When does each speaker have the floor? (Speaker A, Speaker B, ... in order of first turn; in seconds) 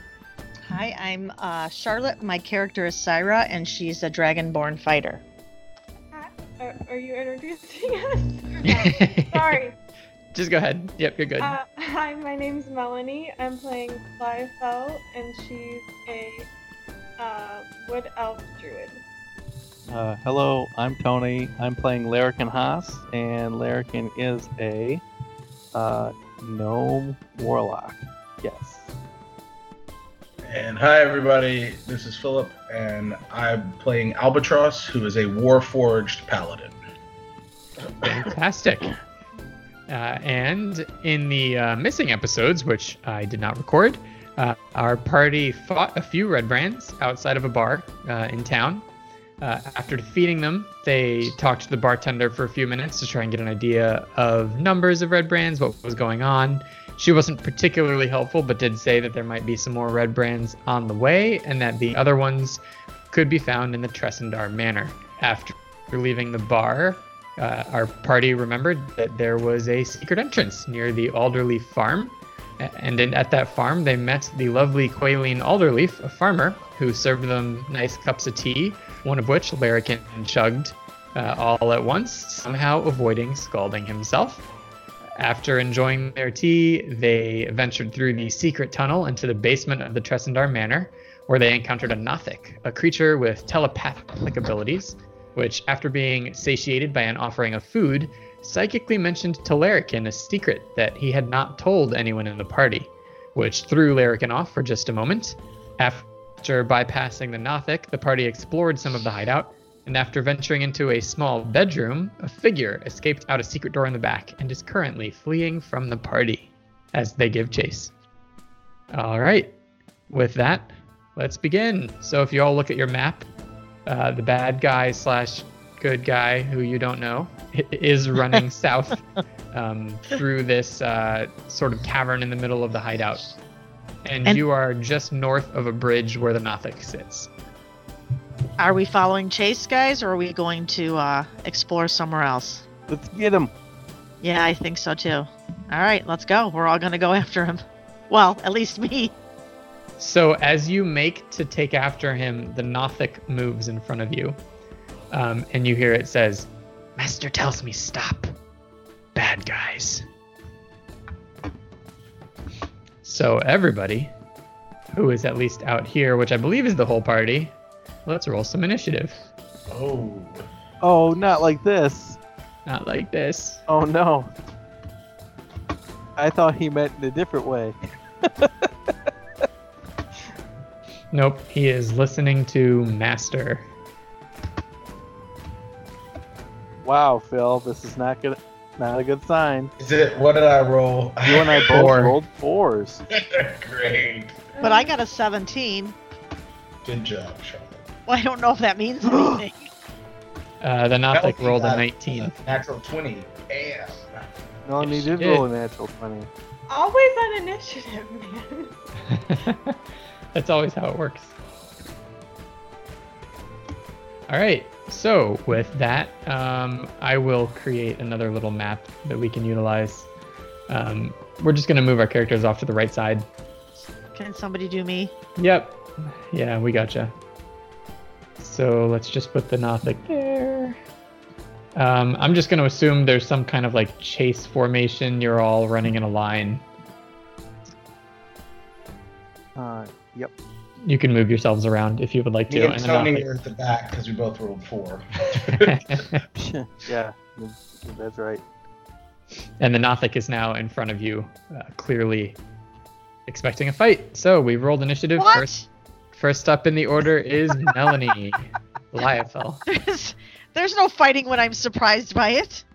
Speaker A: 0.7-5.2, 138.6-142.6, 144.2-149.1, 194.6-195.9, 198.1-199.7, 224.1-225.1, 255.2-255.7, 259.7-262.6
Speaker B: 6.1-9.8, 11.4-16.5, 17.2-19.0, 194.5-194.9, 206.7-208.8, 230.2-230.6
Speaker C: 8.6-9.6, 10.3-11.6, 38.0-38.9, 39.9-48.8, 49.4-62.6, 63.1-84.4, 85.2-117.9, 118.9-119.5, 120.1-123.3, 123.8-129.0, 129.5-133.3, 134.0-137.3, 150.0-154.4, 155.1-158.3, 159.1-160.1, 163.0-164.1, 164.9-167.5, 168.1-169.2, 172.7-173.6, 181.1-183.7, 191.7-192.2, 200.6-202.3, 204.8-205.4, 209.1-209.8, 210.3-211.3, 214.3-220.1, 220.7-223.3, 225.4-227.1, 228.4-230.7, 231.7-236.6, 240.8-243.2, 245.5-246.2, 249.6-252.4, 253.3-255.5, 256.1-259.6
Speaker D: 19.9-25.0, 25.7-28.9, 142.9-143.5, 170.8-172.2, 173.7-174.3, 176.2-178.7, 186.8-189.7, 191.2-193.0, 199.0-199.4, 204.6-206.3, 239.6-240.3, 246.3-248.4
Speaker E: 30.4-36.8, 169.7-170.5, 189.8-191.9, 193.1-194.4, 196.8-197.8, 201.1-204.2, 242.5-245.8